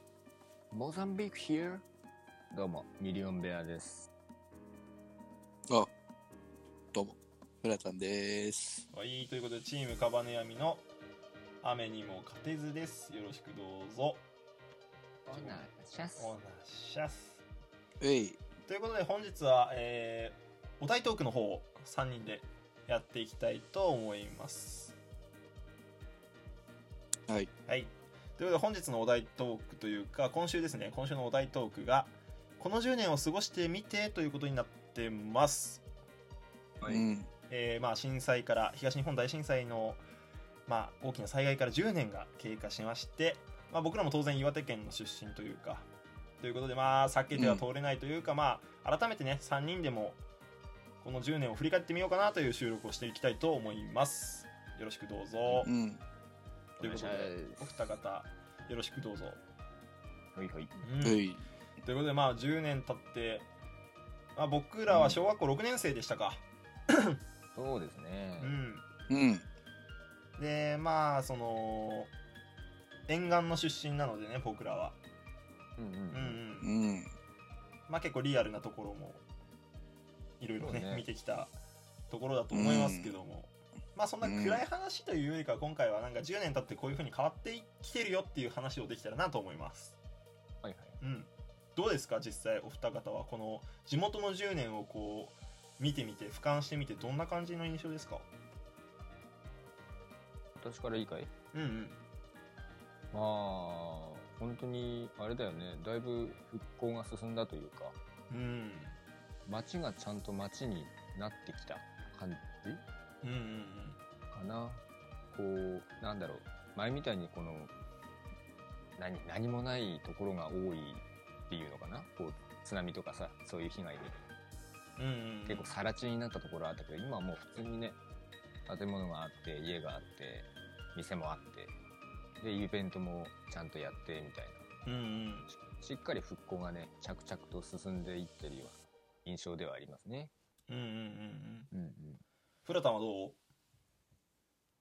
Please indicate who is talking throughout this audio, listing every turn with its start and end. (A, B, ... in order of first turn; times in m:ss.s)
0:00.7-0:01.8 A
0:02.5-0:04.1 A
0:06.9-0:08.9 B
0:08.9-0:10.9 C
0:11.6-0:14.2 C
0:15.3-0:16.4 A
0:15.3-0:15.6 C
0:16.2-0:17.4 C
0:18.0-0:18.4 B
0:18.7-0:25.0 C
0:27.7-0:35.8 C
0:36.8-0:37.3 B
0:37.5-0:40.0 C
0:40.7-0:45.9 C
0:46.4-0:50.2 C
0:47.3-0:47.6 B
0:51.0-0:55.7 C
0:55.6-0:56.0 B
0:56.8-0:57.8 A
0:56.8-0:59.4 C
1:00.4-1:00.8 A
1:00.8-1:01.3 C
1:01.0-1:01.4 B
1:01.8-1:03.5 C
1:04.4-1:07.2 C
1:04.9-1:05.2 A
1:07.6-1:08.6 A
1:08.4-1:08.9 C
1:09.1-1:09.4 B
1:10.4-1:12.1 C
1:13.1-1:15.0 C
1:15.8-1:16.4 A
1:16.1-1:16.7 C
1:16.6-1:17.1 B
1:17.9-1:19.2 C
1:20.4-1:21.5 C
1:20.6-1:21.1 A
1:22.1-1:30.0 C
1:22.5-1:23.2 B
1:24.2-1:24.6 B
1:30.6-1:31.0 A
1:31.0-1:38.3 C
1:40.6-1:41.3 A
1:41.5-1:42.0 C
1:43.1-1:48.0 A
1:48.3-1:49.0 C
1:49.5-1:52.8 A
1:53.2-1:54.0 C
1:54.3-1:57.7 A
1:59.0-2:04.2 A
2:05.0-2:05.7 C
2:05.5-2:08.0 A
2:08.7-2:11.7 A
2:12.4-2:14.7 A
2:14.9-2:15.5 C
2:15.5-2:20.3 A
2:20.7-2:21.7 C
2:21.7-2:22.2 A
2:22.6-2:23.4 C